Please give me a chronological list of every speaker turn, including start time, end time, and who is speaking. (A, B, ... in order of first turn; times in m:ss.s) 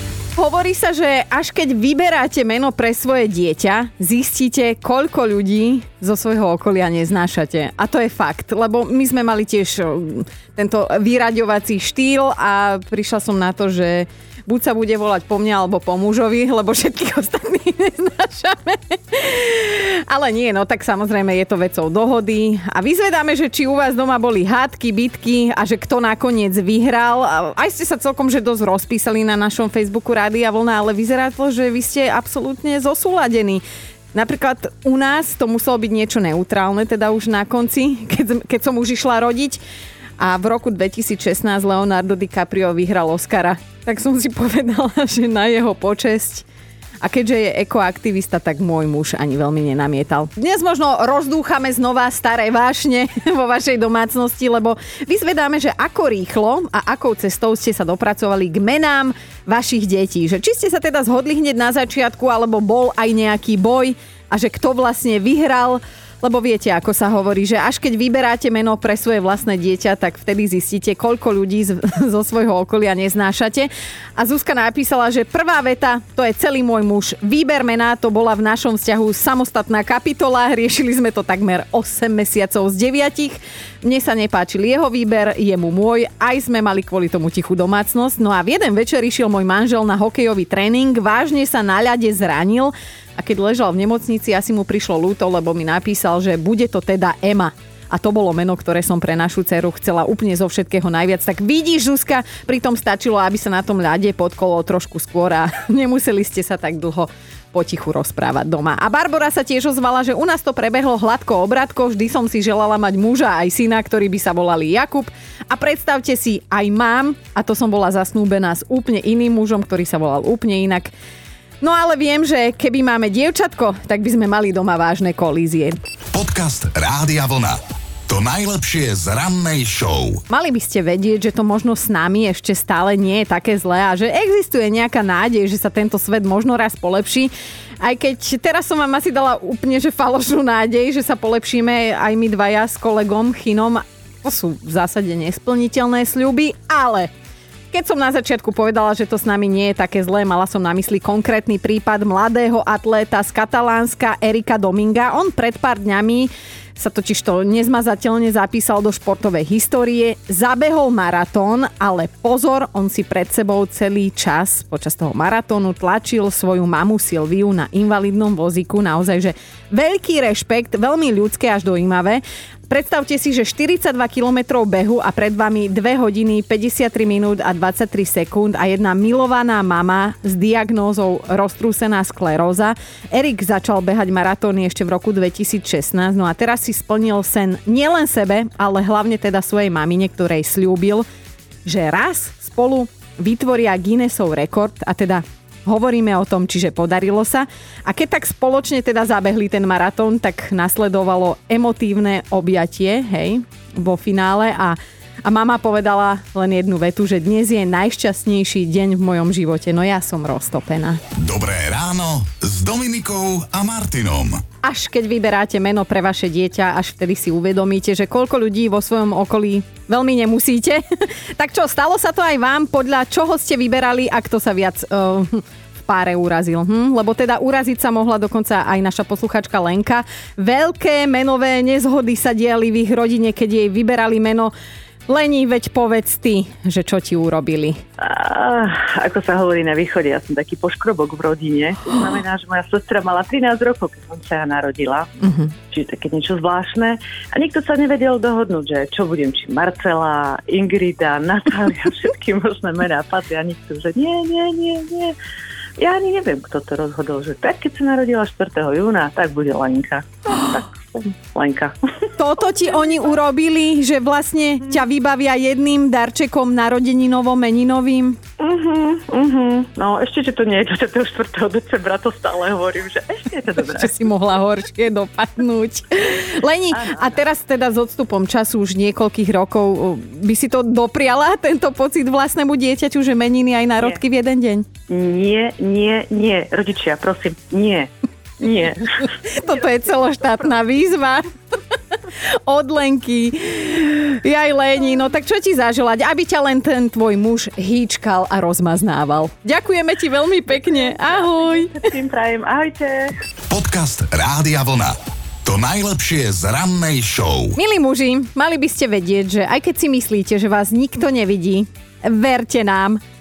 0:00.4-0:39.6 A
0:40.2-0:46.4 A
0:47.0-2:00.9 A
2:01.6-2:05.8 A
2:06.1-2:10.2 B
2:10.3-2:27.1 A
2:27.7-3:11.0 A
3:11.6-3:31.0 A
3:31.2-3:34.4 B
3:34.6-3:54.5 A
3:55.1-3:57.8 A
3:58.0-4:05.1 C
4:05.2-4:05.5 A
4:05.7-4:15.1 C
4:15.8-4:21.7 C
4:22.2-4:28.2 A
4:28.4-4:33.9 C
4:33.7-4:44.7 A
4:36.7-4:37.1 C
4:44.9-4:49.0 C
4:49.0-4:51.2 A
4:52.2-5:01.9 A
5:00.8-5:03.1 C
5:03.5-5:07.6 B
5:07.6-5:13.0 A